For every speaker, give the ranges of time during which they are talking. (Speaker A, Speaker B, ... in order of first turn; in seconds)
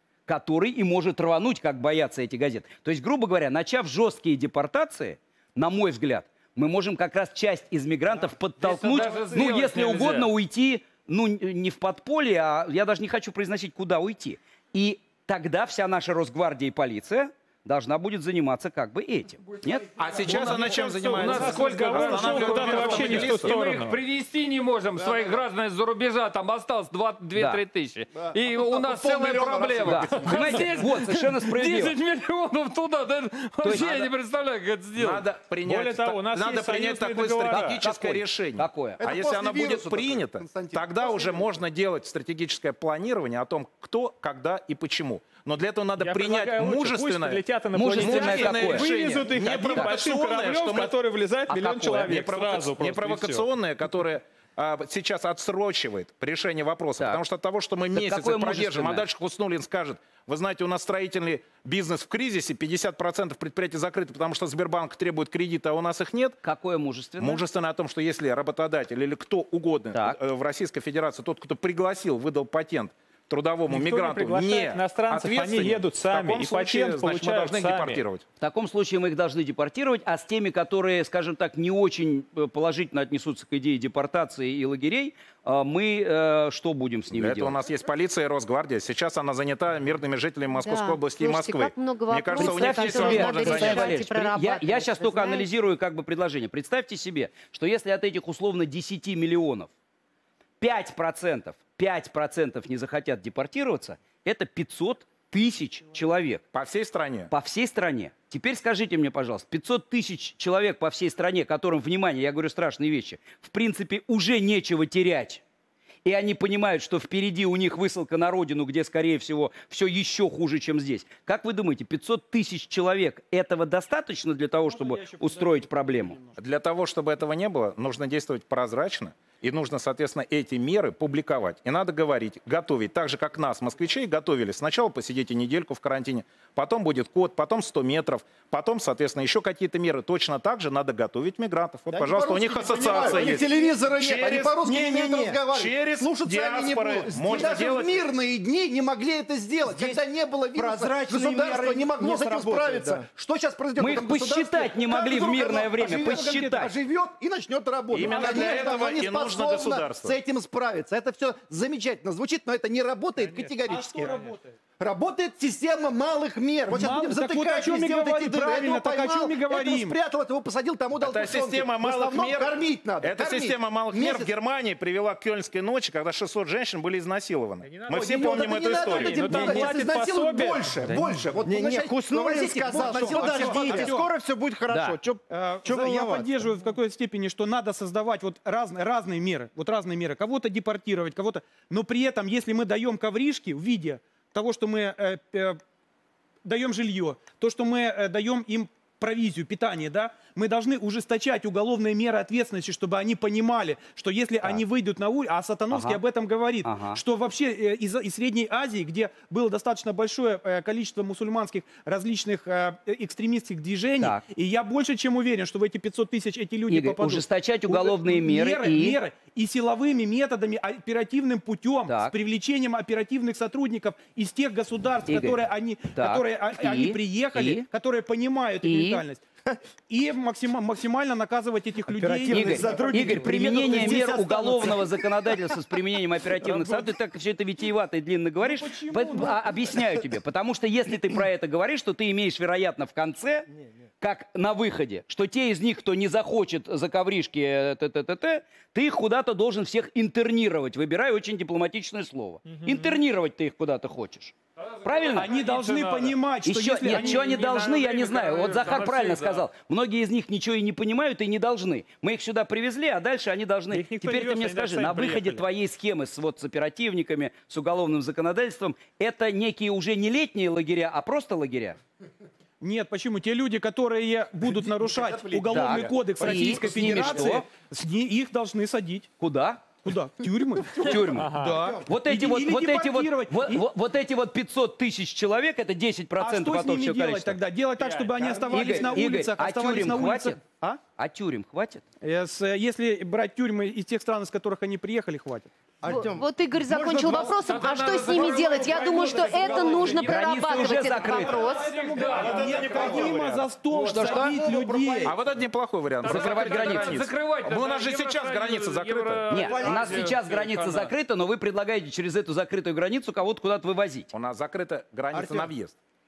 Speaker A: 0.3-19.9, 27.4-27.6, 29.8-32.0, 33.6-34.1, 37.5-39.0, 47.7-48.9, 51.5-52.2, 57.9-59.1, 66.4-67.4, 78.4-87.5, 92.4-99.7, 100.6-106.5, 107.3-115.4, 116.0-126.2, 153.8-156.7, 184.7-185.0, 205.7-206.0, 206.6-207.0, 216.7-219.0, 221.9-222.1, 225.1-225.4, 225.9-227.7, 228.6-229.0, 232.3-243.5, 244.0-255.3, 256.4-271.8, 275.5-277.5, 279.2-279.8, 280.8-287.4, 288.5-290.4, 291.0-291.8, 300.0-301.5, 303.8-304.4, 306.0-307.0, 309.3-314.1
Speaker B: 8.1-10.3, 20.3-35.2, 254.8-256.1, 256.9-259.5, 287.8-288.4, 297.0-303.2, 306.0-310.9
Speaker C: 19.9-23.9, 35.0-51.0, 52.0-66.4, 67.2-78.2, 87.1-94.1, 106.5-107.3, 126.4-144.6, 145.5-148.0, 157.9-160.2, 171.0-179.7, 275.0-275.9, 302.2-303.4, 305.0-309.6, 314.1-315.8
Speaker D: 20.2-24.0, 30.3-30.8, 35.6-37.8, 46.0-53.5, 73.7-78.0, 163.2-163.5, 177.6-181.1, 252.5-253.0, 255.4-256.1, 256.9-257.4, 263.7-265.4, 281.1-281.7, 302.1-304.1
Speaker E: 28.4-30.3, 39.0-41.5, 142.4-174.3, 177.9-184.0, 304.4-305.1
Speaker F: 90.6-95.5, 295.9-301.9
Speaker G: 124.6-126.4, 155.7-156.7, 163.7-164.6, 166.7-170.0, 182.8-184.1, 185.3-195.6, 196.4-229.2, 229.9-234.9, 236.4-236.9, 238.4-239.7, 255.1-257.8, 272.6-279.1, 279.8-283.6, 286.2-290.8, 292.0-295.5, 299.4-300.0, 301.4-305.2
Speaker H: 141.9-145.4, 149.6-150.0, 150.5-153.1, 181.4-186.4, 231.9-234.6, 295.8-296.3, 309.4-310.1, 315.1-315.5